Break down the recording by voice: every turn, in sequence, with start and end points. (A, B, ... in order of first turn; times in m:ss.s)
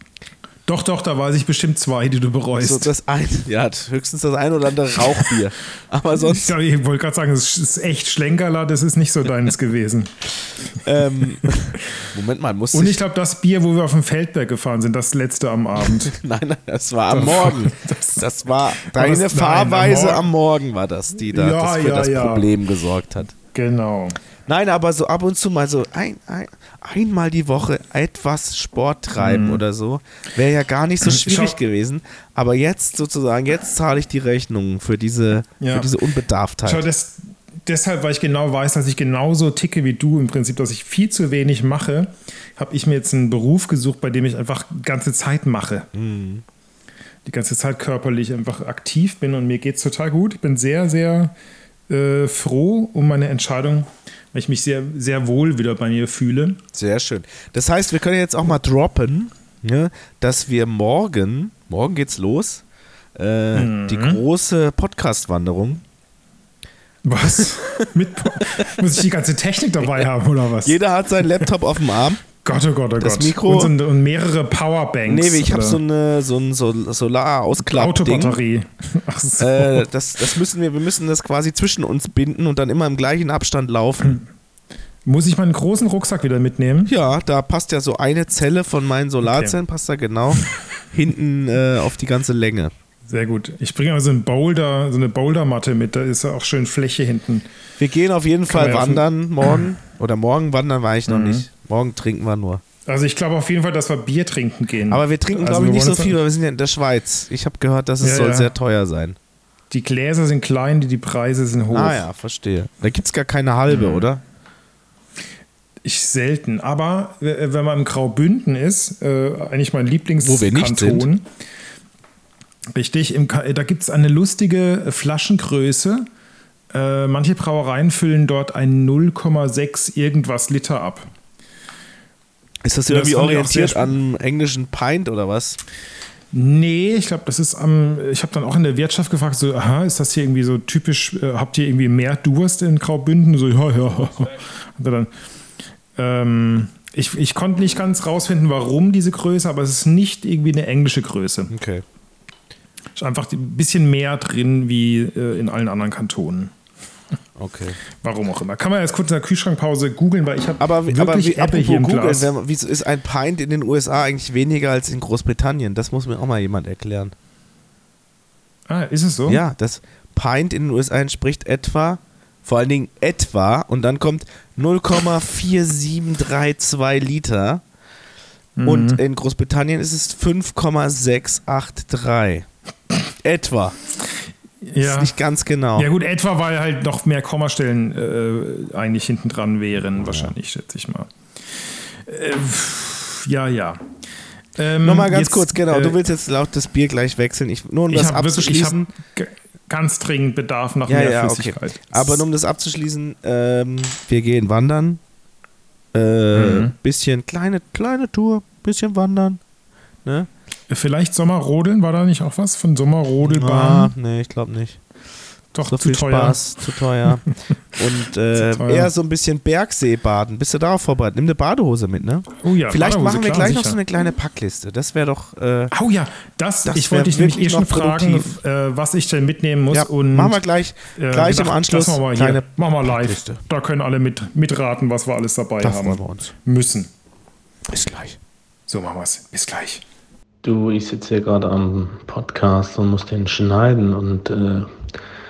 0:00.7-0:02.9 A
0:02.6-0:06.5 B
0:06.2-0:10.1 A
0:10.7-0:13.0 B
0:12.7-0:16.1 A
0:15.8-0:23.3 B
0:17.1-0:18.2 A
0:18.8-0:20.3 A
0:21.3-0:22.5 A
0:23.5-0:24.2 A
0:24.5-0:36.8 B
0:29.2-0:29.6 A
0:31.0-0:31.6 A
0:35.6-0:35.9 A
0:36.6-0:45.9 A
0:45.9-0:46.4 B
0:47.2-0:51.3 A
0:51.9-0:56.6 A
0:56.7-1:02.6 B
1:03.2-1:05.8 B
1:03.5-1:04.2 A
1:07.0-1:10.8 A
1:08.3-1:08.7 B
1:10.6-1:12.2 B
1:12.4-1:15.8 A
1:13.0-1:13.7 B
1:15.0-1:18.4 B
1:17.6-1:19.9 A
1:19.4-1:24.2 B
1:25.0-1:26.9 A
1:26.9-1:32.7 B
1:29.2-1:29.6 A
1:33.1-1:37.5 A
1:37.8-1:42.6 B
1:38.5-1:39.0 A
1:41.1-1:41.4 A
1:42.9-1:46.2 A
1:44.9-1:49.2 B
1:48.0-1:48.5 A
1:49.7-1:52.0 A
1:51.7-1:54.2 B
1:53.7-1:54.0 A
1:55.8-2:01.3 A
2:00.2-2:01.1 B
2:02.7-2:06.0 A
2:06.7-2:11.1 A
2:12.6-2:15.6 B
2:12.9-2:13.9 A
2:16.3-2:25.1 A
2:26.0-2:31.5 A
2:31.5-2:31.8 B
2:33.0-2:36.5 A
2:37.4-2:37.8 B
2:38.0-2:42.3 A
2:40.6-2:47.1 B
2:48.7-2:49.4 A
2:49.2-2:57.6 B
2:58.6-2:59.0 A
2:58.6-3:02.5 B
3:03.2-3:03.8 B
3:04.6-3:05.1 A
3:04.8-3:05.9 B
3:05.8-3:11.1 A
3:10.0-3:10.3 B
3:12.0-3:13.8 A
3:14.6-3:16.0 A
3:14.8-3:18.9 B
3:17.9-3:22.2 A
3:20.9-3:25.0 B
3:25.9-3:29.4 B
3:26.3-3:26.7 A
3:30.7-3:33.9 A
3:33.2-3:34.8 B
3:35.5-3:36.4 A
3:35.6-3:45.7 B
3:38.3-3:38.9 A
3:42.4-3:43.8 A
3:45.7-3:50.4 A
3:46.6-3:48.3 B
3:49.7-3:53.4 B
3:50.9-3:56.9 A
3:55.6-3:56.3 B
3:57.7-3:58.2 B
3:58.7-3:59.8 A
4:00.4-4:04.7 C